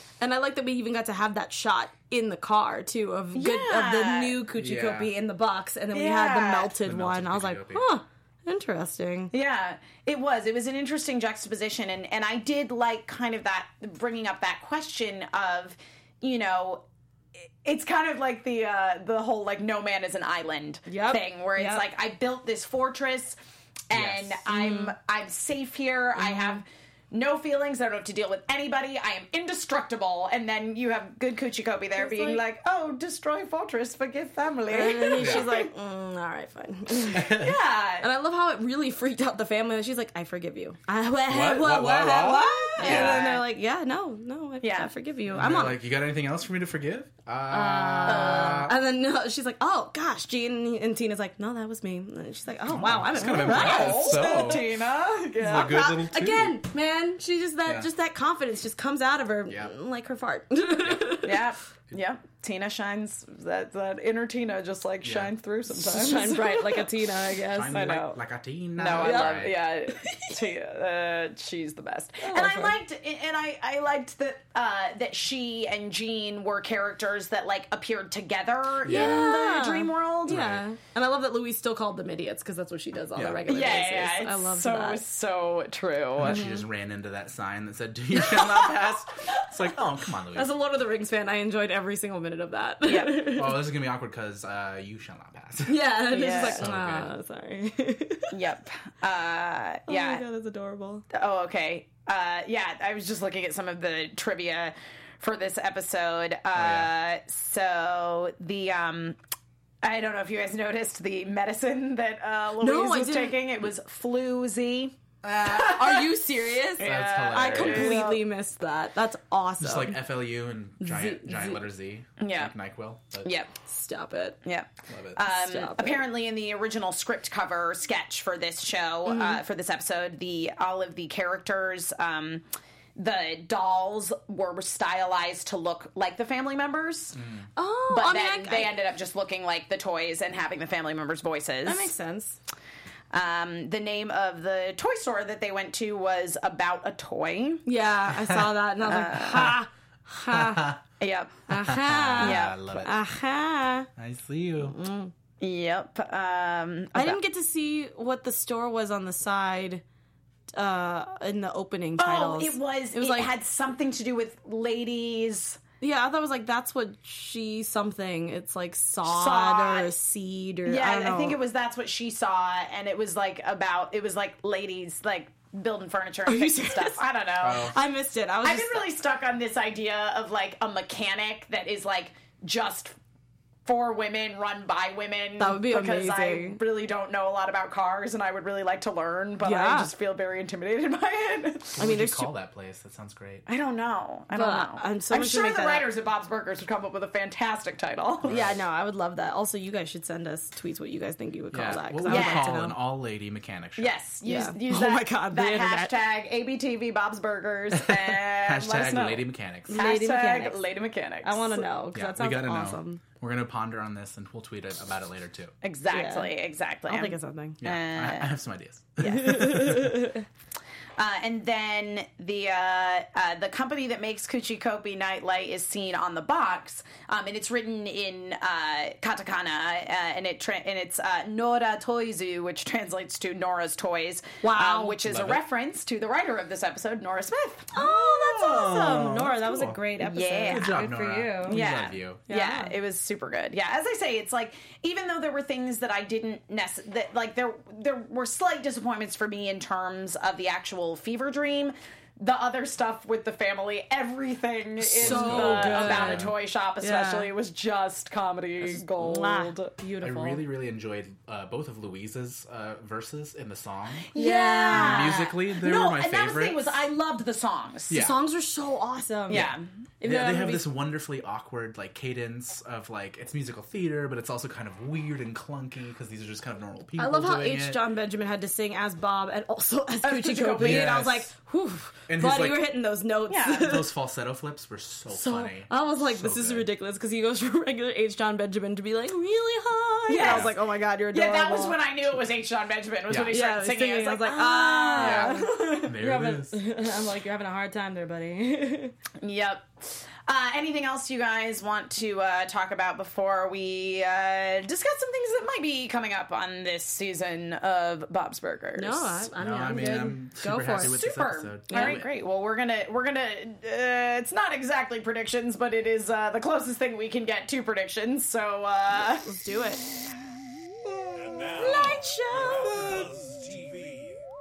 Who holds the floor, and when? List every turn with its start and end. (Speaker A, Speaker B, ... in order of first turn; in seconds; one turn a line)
Speaker A: 0.2-9.3
Speaker B: 3.3-4.4
Speaker C: 4.5-5.1
Speaker B: 5.9-6.7
Speaker C: 6.8-7.9
Speaker B: 9.3-16.8
Speaker B: 17.6-23.4
Speaker A: 20.9-21.8
Speaker B: 23.9-35.7
Speaker C: 23.9-24.4
Speaker A: 24.5-24.9
Speaker A: 32.0-32.4
Speaker A: 34.7-37.4
Speaker C: 35.2-35.5
Speaker C: 37.1-37.5
Speaker B: 37.1-38.1
Speaker A: 38.0-45.8
Speaker C: 41.3-43.3
Speaker B: 42.8-43.4
Speaker B: 44.6-44.9
Speaker C: 45.3-48.8
Speaker A: 47.5-54.7
Speaker B: 48.0-48.7
Speaker C: 52.7-54.7
Speaker B: 53.2-55.9
Speaker C: 55.4-56.6
Speaker A: 55.4-61.4
Speaker C: 59.5-59.7
Speaker B: 61.2-66.9
Speaker C: 65.0-65.3
Speaker A: 65.7-68.1
Speaker C: 67.5-69.5
Speaker B: 68.8-80.4
Speaker A: 68.9-70.3
Speaker A: 72.2-72.8
Speaker C: 78.8-79.3
Speaker A: 78.8-85.0
Speaker C: 80.3-80.6
Speaker C: 83.2-83.4
Speaker B: 83.5-86.5
Speaker C: 86.2-90.5
Speaker A: 86.3-86.6
Speaker A: 90.3-93.6
Speaker B: 92.8-93.2
Speaker C: 93.3-95.8
Speaker A: 95.7-98.3
Speaker B: 96.1-96.6
Speaker C: 96.3-97.1
Speaker B: 98.3-100.2
Speaker A: 99.9-101.0
Speaker B: 101.1-109.2
Speaker C: 106.5-106.9
Speaker B: 109.8-116.0
Speaker A: 112.6-113.4
Speaker C: 115.2-115.6
Speaker A: 115.4-120.0
Speaker B: 116.8-118.2
Speaker C: 116.8-118.0
Speaker C: 119.6-123.3
Speaker A: 120.8-121.6
Speaker B: 122.2-122.5
Speaker B: 123.2-123.5
Speaker A: 123.6-124.4
Speaker B: 124.4-132.4
Speaker C: 124.9-125.2
Speaker A: 125.2-126.0
Speaker A: 129.0-129.4
Speaker B: 132.9-137.2
Speaker C: 137.1-137.5
Speaker A: 137.6-138.8
Speaker B: 137.9-141.9
Speaker A: 141.6-142.4
Speaker B: 143.1-147.6
Speaker A: 147.7-150.7
Speaker B: 148.8-149.6
Speaker C: 150.3-150.8
Speaker B: 151.0-151.3
Speaker A: 151.5-153.9
Speaker C: 151.5-152.9
Speaker B: 152.2-152.7
Speaker C: 154.0-154.8
Speaker A: 154.6-155.1
Speaker B: 155.4-157.2
Speaker A: 156.9-159.8
Speaker A: 160.5-163.3
Speaker B: 162.0-165.6
Speaker A: 165.8-171.4
Speaker B: 169.0-169.9
Speaker B: 170.7-177.7
Speaker A: 176.2-178.9
Speaker C: 177.4-177.8
Speaker B: 178.4-182.9
Speaker B: 183.7-191.8
Speaker A: 185.4-186.6
Speaker A: 189.4-189.9
Speaker C: 191.8-193.4
Speaker A: 191.8-192.3
Speaker B: 193.4-198.3
Speaker A: 194.3-195.9
Speaker C: 198.2-198.6
Speaker A: 198.2-202.8
Speaker C: 201.5-203.9
Speaker B: 202.1-202.5
Speaker B: 203.8-211.7
Speaker A: 204.2-205.9
Speaker C: 207.7-209.8
Speaker A: 209.7-210.6
Speaker A: 211.2-213.0
Speaker C: 211.9-215.5
Speaker B: 215.6-218.3
Speaker A: 215.9-216.3
Speaker A: 216.9-217.6
Speaker C: 217.6-220.0
Speaker A: 219.0-220.2
Speaker B: 221.0-237.7
Speaker A: 234.4-235.0
Speaker C: 235.0-235.4
Speaker A: 237.7-241.6
Speaker C: 237.7-239.8
Speaker B: 240.0-240.8
Speaker C: 240.5-242.2
Speaker B: 241.4-259.7
Speaker A: 242.3-242.7
Speaker C: 254.8-256.3
Speaker A: 255.0-257.3
Speaker A: 258.6-260.4
Speaker C: 260.0-264.1
Speaker B: 264.1-268.0
Speaker A: 264.1-265.2
Speaker C: 264.7-266.6
Speaker C: 267.9-268.1
Speaker A: 267.9-270.7
Speaker B: 269.3-269.6
Speaker C: 269.3-277.8
Speaker A: 277.0-283.9
Speaker B: 280.0-281.0
Speaker C: 280.6-281.3
Speaker C: 282.1-282.7
Speaker B: 283.3-283.7
Speaker C: 283.6-286.7
Speaker A: 285.1-291.9
Speaker B: 290.1-290.5
Speaker C: 290.2-290.5
Speaker B: 291.1-295.8
Speaker C: 293.1-293.4
Speaker A: 293.3-298.9
Speaker C: 295.0-296.6
Speaker B: 299.2-309.3
Speaker A: 308.8-311.0
Speaker C: 309.4-312.1
Speaker B: 310.8-319.3
Speaker A: 311.7-312.0
Speaker A: 319.2-319.9
Speaker A: 321.4-323.1
Speaker C: 321.5-321.9